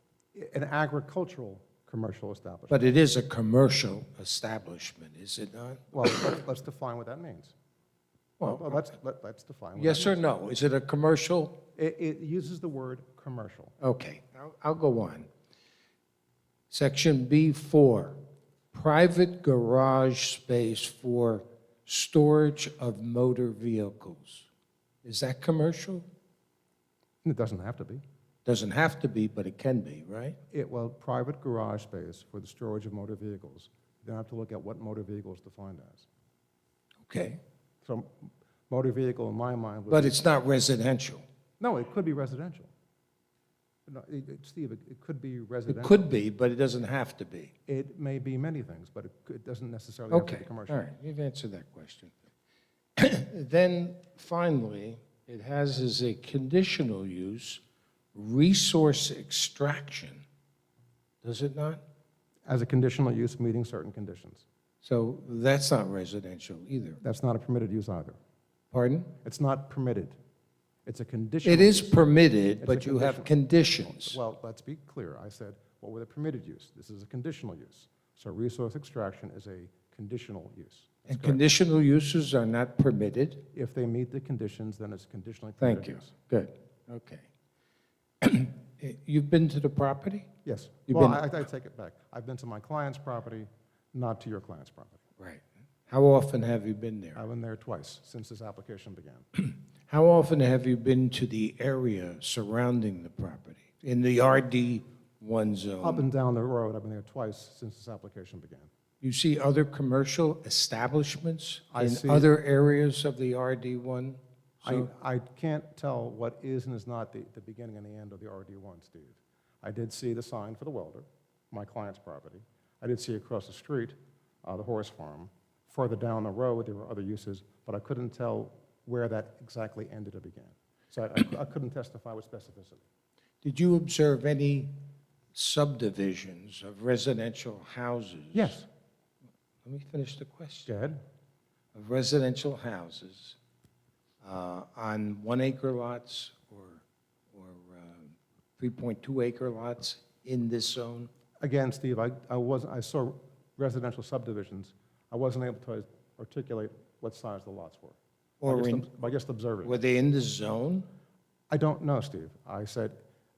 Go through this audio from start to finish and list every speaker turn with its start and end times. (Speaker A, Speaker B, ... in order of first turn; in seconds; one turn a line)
Speaker A: 0.3-2.9
Speaker B: 2.7-6.2
Speaker A: 5.9-7.5
Speaker B: 8.4-8.9
Speaker A: 8.4-10.2
Speaker B: 9.7-11.6
Speaker A: 11.8-13.7
Speaker B: 13.8-15.3
Speaker B: 16.7-18.2
Speaker B: 18.7-24.5
Speaker B: 25.0-26.0
Speaker A: 27.2-28.0
Speaker B: 28.4-30.4
Speaker A: 30.5-36.1
Speaker B: 37.0-37.4
Speaker A: 37.8-40.2
Speaker B: 39.9-41.2
Speaker A: 41.6-42.7
Speaker A: 43.9-46.0
Speaker B: 45.7-47.5
Speaker A: 47.7-50.8
Speaker B: 50.1-52.1
Speaker B: 53.0-57.6
Speaker B: 58.1-60.2
Speaker B: 61.2-61.8
Speaker A: 62.5-64.4
Speaker B: 64.8-67.0
Speaker A: 67.0-68.2
Speaker B: 68.7-69.1
Speaker A: 69.2-70.2
Speaker A: 70.8-72.0
Speaker B: 71.4-74.2
Speaker A: 72.6-81.4
Speaker B: 81.1-83.4
Speaker A: 83.5-86.1
Speaker B: 85.6-87.2
Speaker B: 88.2-90.3
Speaker A: 90.4-95.0
Speaker B: 90.9-91.2
Speaker B: 95.2-97.2
Speaker A: 97.1-99.2
Speaker B: 99.4-106.0
Speaker A: 105.8-108.7
Speaker B: 109.0-114.9
Speaker A: 111.7-112.3
Speaker A: 114.6-132.8
Speaker B: 133.4-134.8
Speaker B: 135.3-138.6
Speaker A: 138.3-138.6
Speaker B: 139.6-140.7
Speaker A: 140.7-141.0
Speaker B: 141.7-143.3
Speaker B: 144.2-146.8
Speaker B: 147.3-151.1
Speaker A: 151.4-159.8
Speaker B: 158.4-160.9
Speaker A: 161.5-163.0